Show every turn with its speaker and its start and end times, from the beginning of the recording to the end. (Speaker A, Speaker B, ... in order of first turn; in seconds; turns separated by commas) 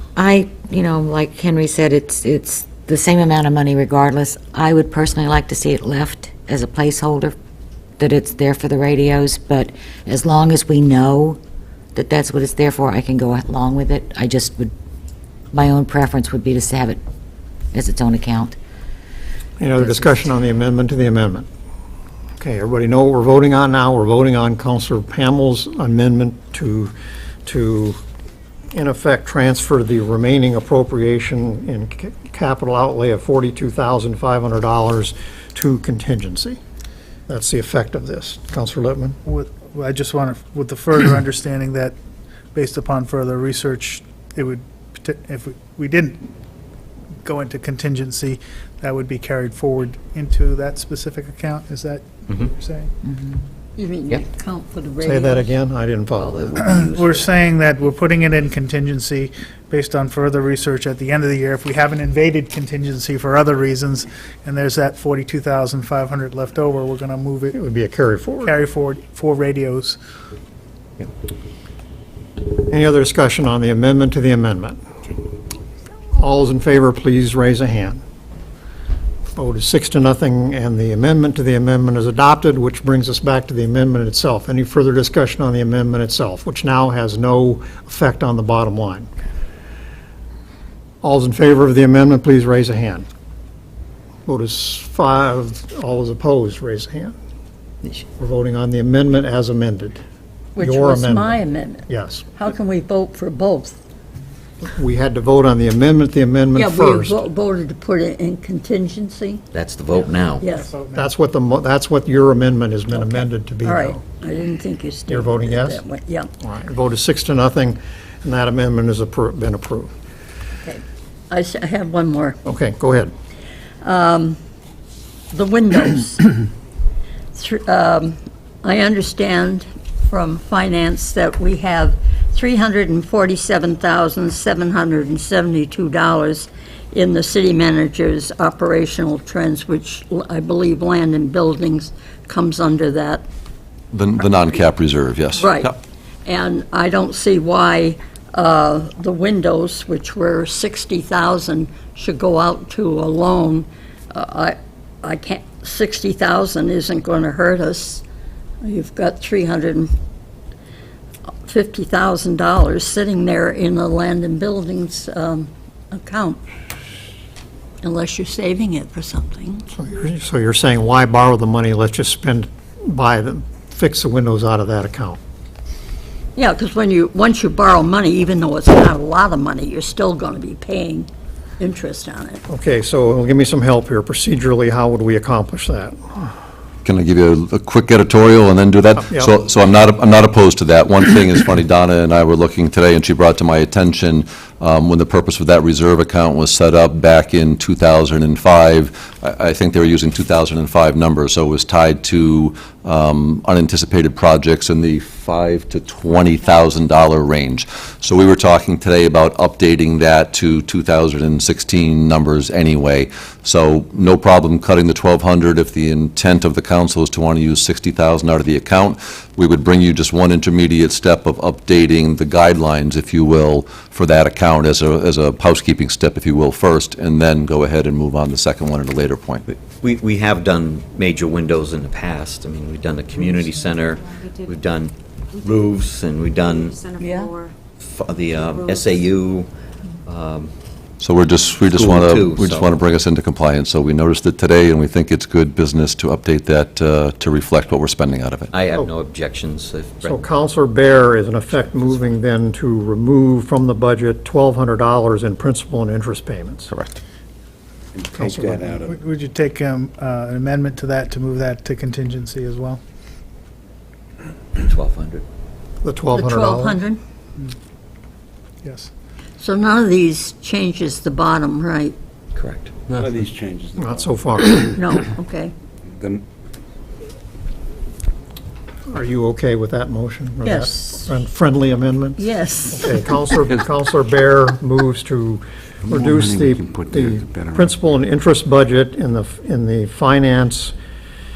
Speaker A: 0.1-7.3, Speaker A: 8.0-11.4, Speaker A: 11.9-14.7, Speaker A: 15.5-17.0, Speaker A: 17.7-18.6, Speaker B: 19.6-21.5, Speaker A: 19.8-20.1, Speaker B: 22.4-26.9, Speaker B: 27.4-28.0, Speaker B: 28.7-36.6, Speaker B: 37.3-39.2, Speaker C: 39.2-42.0, Speaker C: 42.5-46.2, Speaker C: 47.2-52.9, Speaker D: 53.8-55.5, Speaker B: 55.0-56.5, Speaker E: 56.1-57.4, Speaker C: 56.6-67.6, Speaker B: 67.5-68.5, Speaker C: 68.4-70.0, Speaker B: 72.6-74.8, Speaker B: 76.2-78.0, Speaker B: 79.3-89.1, Speaker B: 91.0-93.1, Speaker B: 94.2-97.1, Speaker B: 98.2-100.0, Speaker D: 100.5-103.8, Speaker B: 100.6-101.4, Speaker B: 101.9-102.2, Speaker B: 104.6-107.2, Speaker D: 106.5-109.4, Speaker E: 109.5-110.4, Speaker D: 110.4-110.7, Speaker C: 110.4-111.1, Speaker B: 110.9-114.0, Speaker D: 113.6-116.3, Speaker B: 115.1-115.8, Speaker B: 116.4-119.9, Speaker D: 120.6-122.4, Speaker B: 122.5-123.1, Speaker D: 123.8-124.4, Speaker D: 125.3-126.3, Speaker D: 127.3-143.2, Speaker F: 143.9-145.7, Speaker D: 145.4-145.7, Speaker D: 146.2-158.0, Speaker D: 158.6-159.9, Speaker D: 161.4-166.4, Speaker D: 167.8-169.6, Speaker B: 169.7-175.2, Speaker D: 176.3-182.4, Speaker B: 182.5-186.3, Speaker F: 186.8-229.4, Speaker E: 229.5-236.8, Speaker D: 237.0-237.3, Speaker E: 237.8-239.5, Speaker E: 240.0-240.5, Speaker F: 241.0-248.5, Speaker E: 241.7-242.8, Speaker E: 248.5-250.2, Speaker B: 250.0-256.7, Speaker F: 256.7-257.0, Speaker G: 257.9-258.9, Speaker B: 258.1-258.8, Speaker C: 258.8-262.8, Speaker E: 264.6-265.2, Speaker B: 265.8-266.8, Speaker D: 266.1-267.0, Speaker C: 268.6-268.9, Speaker D: 269.4-271.9, Speaker E: 272.3-272.7, Speaker G: 272.9-274.2, Speaker B: 273.8-274.7, Speaker D: 274.7-275.5, Speaker G: 276.0-276.2, Speaker B: 278.9-290.7, Speaker D: 280.4-281.1, Speaker D: 282.2-283.1, Speaker G: 285.9-287.7